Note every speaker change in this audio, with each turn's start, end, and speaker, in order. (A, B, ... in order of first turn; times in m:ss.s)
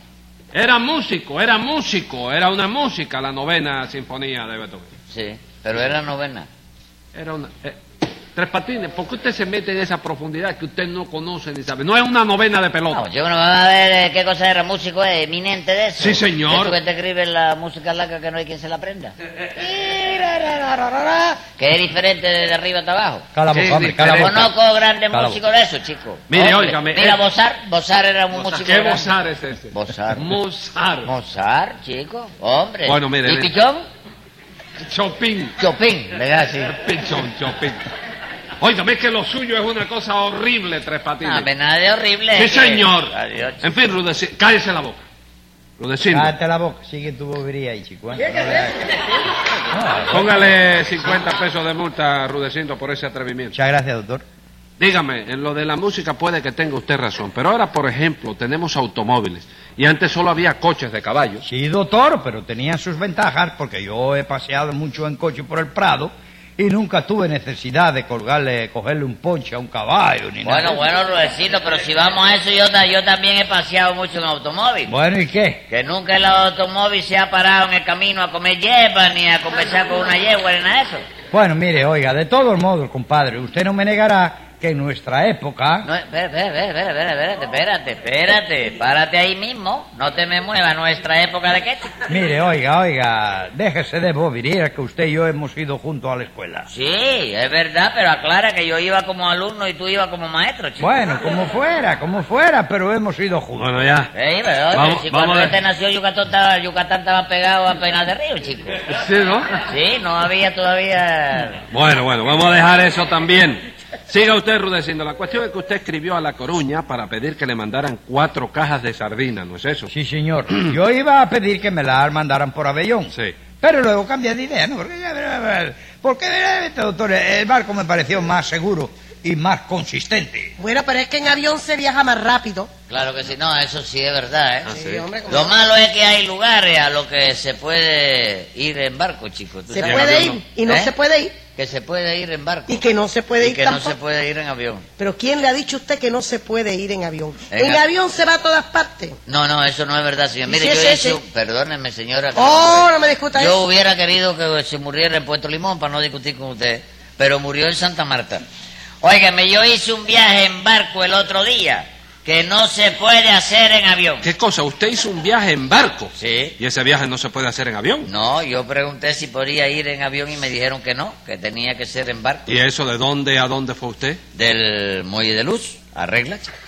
0:00.5-0:04.9 A
0:05.1-0:06.5 B
0:07.1-0:07.8 A
0:08.4-0:13.0 A
0:12.9-0:23.2 B
0:16.0-0:16.8 A
0:23.3-0:24.5 C
0:23.5-0:24.5 A
0:24.1-0:29.1 B
0:25.1-0:25.4 C
0:26.3-0:27.2 A
0:28.3-0:31.1 A
0:29.7-0:30.3 B
0:31.0-0:33.8 B
0:32.8-0:33.5 A
0:34.8-0:35.6 A
0:35.6-0:36.7 B
0:36.7-0:37.8 A
0:38.6-0:41.5 A
0:41.2-0:43.6 B
0:42.4-0:45.0 A
0:45.8-0:46.3 A
0:46.1-0:49.1 C
0:49.7-0:50.4 C
0:50.1-0:53.6 A
0:53.5-0:54.2 C
0:54.8-1:01.4 A
1:01.4-1:10.8 C
1:10.4-1:14.9 B
1:14.9-1:15.6 C
1:15.7-1:21.0 B
1:21.3-1:25.9 C
1:25.8-1:31.9 B
1:32.1-1:36.7 C
1:36.7-1:40.9 B
1:40.8-1:43.8 C
1:43.6-1:44.1 A
1:44.1-1:48.8 B
1:44.7-1:45.6 A
1:48.9-1:49.5 A
1:49.7-1:51.6 B
1:51.7-1:59.9 A
1:59.9-2:10.6 C
2:10.6-2:12.7 D
2:12.9-2:14.8 B
2:14.7-2:15.1 A
2:14.7-2:15.5 D
2:15.2-2:20.9 B
2:19.7-2:21.4 D
2:19.8-2:20.3 A
2:21.6-2:22.8 B
2:22.7-2:23.9 D
2:23.4-2:24.9 B
2:25.0-2:29.1 D
2:27.5-2:27.8 B
2:29.2-2:38.4 B
2:30.5-2:31.2 D
2:32.4-2:33.6 D
2:39.0-2:44.2 B
2:44.2-2:48.1 A
2:46.2-2:46.6 B
2:48.0-2:52.4 B
2:52.5-2:54.2 A
2:54.4-2:56.5 B